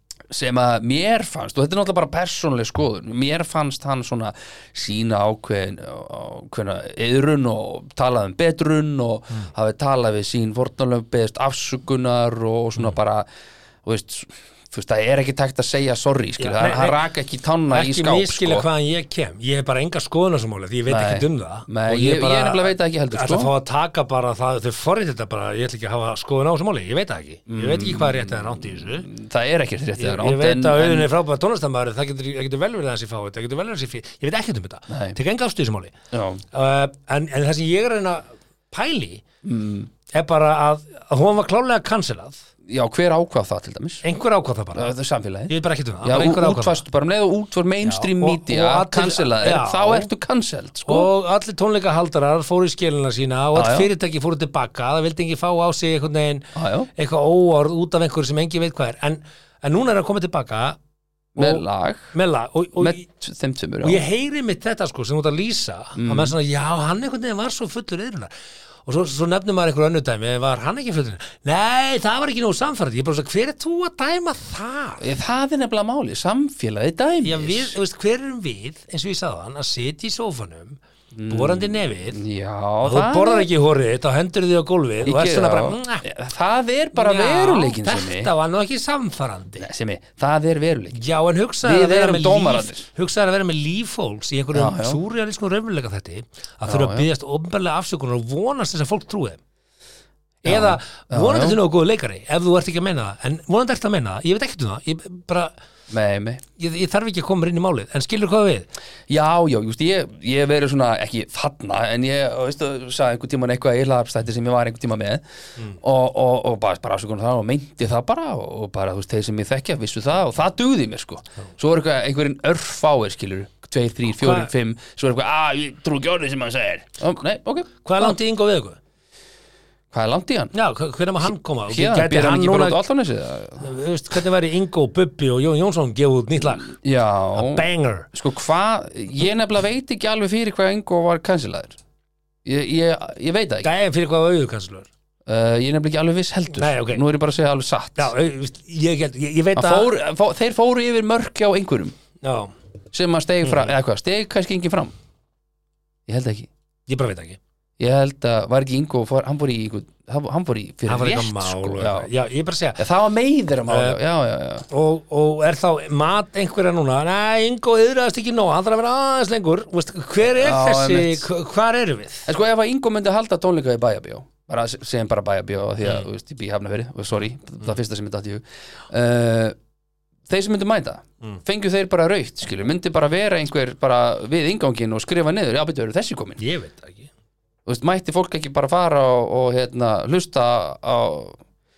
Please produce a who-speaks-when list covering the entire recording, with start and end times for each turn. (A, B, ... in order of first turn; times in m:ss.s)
0:00.3-0:13.3 A
0:13.8-0:18.7 A
0:16.4-0:17.0 B
0:17.7-0:29.1 B
0:20.9-0:23.5 A
0:27.5-0:31.1 A
0:30.0-0:35.9 B
0:34.9-0:35.2 A
0:36.1-0:36.4 A
0:36.5-0:39.2 B
0:39.4-0:39.9 A
0:40.1-0:42.4 B
0:42.7-0:44.0 A
0:44.0-0:44.9 B
0:44.8-0:45.5 A
0:45.5-0:46.8 B
0:46.0-0:51.1 A
0:47.8-0:50.1 B
0:50.9-1:00.8 B
0:53.6-0:53.9 A
0:56.6-0:56.9 A
1:01.4-1:02.1 A
1:01.4-1:03.0 B
1:02.8-1:04.0 A
1:03.8-1:08.3 B
1:06.0-1:06.4 A
1:08.9-1:15.0 B
1:15.0-1:17.8 A
1:17.2-1:20.8 B
1:21.1-1:23.5 A
1:21.3-1:22.2 B
1:22.8-1:26.1 B
1:25.0-1:28.3 A
1:27.0-1:29.7 B
1:29.6-1:31.0 A
1:30.9-1:39.4 B
1:31.6-1:32.9 A
1:34.5-1:35.0 A
1:36.7-1:37.1 A
1:40.4-1:45.5 B
1:40.4-1:41.6 A
1:45.9-1:46.4 A
1:46.6-1:48.7 B
1:49.1-1:55.2 A
1:55.7-2:08.2 A
2:04.1-2:04.5 B
2:07.8-2:08.8 B
2:09.9-2:10.5 A
2:10.5-2:12.8 B
2:11.7-2:13.7 A
2:13.6-2:16.8 B
2:16.7-2:21.8 A
2:17.4-2:18.1 B
2:22.4-2:23.7 A
2:23.6-2:24.9 B
2:25.3-2:28.1 A
2:26.6-2:27.0 B
2:28.0-2:29.9 B
2:29.6-2:32.0 A
2:32.2-2:32.5 B
2:32.9-2:34.9 A
2:33.4-2:33.7 B
2:36.1-2:36.5 A
2:36.9-2:37.4 B
2:37.8-2:42.1 A
2:40.9-2:42.8 B
2:42.8-2:44.7 A
2:43.7-2:44.0 B
2:44.7-2:52.3 B
2:50.4-2:51.3 A
2:52.3-2:59.6 A
3:00.3-3:06.4 A
3:06.4-3:07.1 B
3:07.7-3:11.4 A